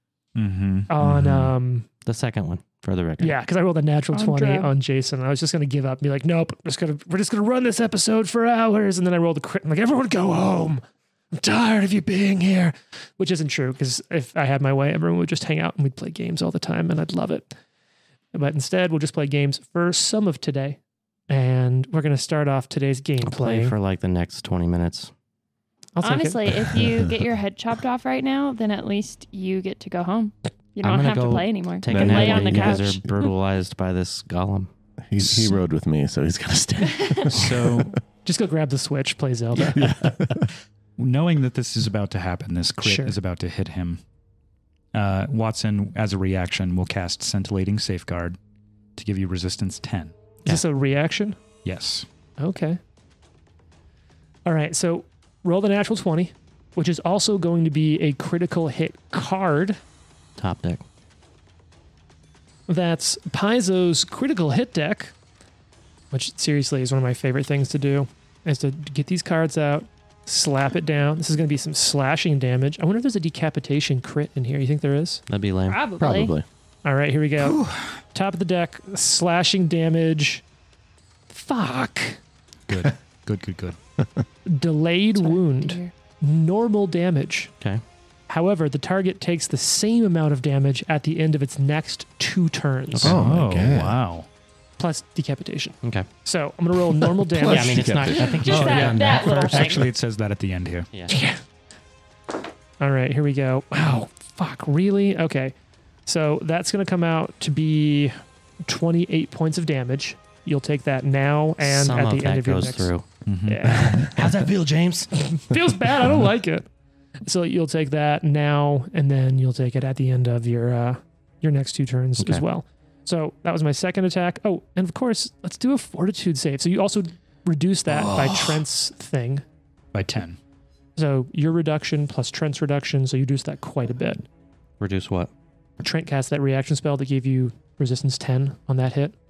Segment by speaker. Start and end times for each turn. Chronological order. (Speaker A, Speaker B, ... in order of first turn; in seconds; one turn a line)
Speaker A: 0.3-1.5
Speaker B: 0.9-1.9
Speaker C: 2.0-3.4
Speaker B: 3.2-10.8
Speaker D: 4.1-4.7
Speaker B: 11.3-17.5
Speaker B: 18.3-20.8
Speaker B: 21.3-23.8
Speaker C: 23.2-25.1
Speaker B: 25.9-26.4
Speaker D: 26.0-33.1
Speaker C: 30.8-34.7
Speaker E: 31.9-33.0
Speaker E: 35.1-38.0
Speaker A: 35.2-35.5
Speaker D: 36.9-37.3
Speaker A: 37.3-38.0
Speaker B: 38.2-39.9
Speaker E: 39.7-40.5
Speaker A: 41.0-44.0
Speaker B: 42.8-43.2
Speaker A: 44.9-48.4
Speaker A: 49.0-50.1
Speaker B: 50.5-51.4
Speaker A: 51.6-52.0
Speaker B: 52.4-52.8
Speaker B: 54.4-59.8
Speaker C: 60.4-60.8
Speaker B: 62.7-65.1
Speaker B: 66.1-75.2
Speaker C: 75.3-75.8
Speaker D: 75.7-76.3
Speaker E: 76.0-76.4
Speaker B: 76.8-80.4
Speaker A: 77.4-78.0
Speaker B: 81.3-82.2
Speaker A: 82.7-83.8
Speaker B: 84.5-87.5
Speaker D: 85.2-85.9
Speaker B: 88.3-93.2
Speaker A: 93.0-94.3
Speaker E: 93.0-94.0
Speaker B: 94.8-98.0
Speaker C: 95.8-96.1
Speaker E: 97.3-98.5
Speaker C: 97.4-99.7
Speaker D: 98.2-99.9
Speaker A: 98.4-100.9
Speaker B: 98.7-99.7
Speaker B: 101.1-101.4
Speaker B: 102.8-105.5
Speaker B: 106.0-112.9
Speaker C: 111.6-113.0
Speaker A: 113.2-114.2
Speaker B: 113.5-114.3
Speaker C: 113.7-115.1
Speaker B: 115.2-116.7
Speaker A: 116.0-116.3
Speaker B: 117.2-129.4
Speaker C: 122.2-122.4
Speaker A: 127.9-128.6
Speaker A: 129.9-130.4
Speaker B: 130.9-134.3
Speaker C: 134.8-135.3
Speaker B: 135.8-139.1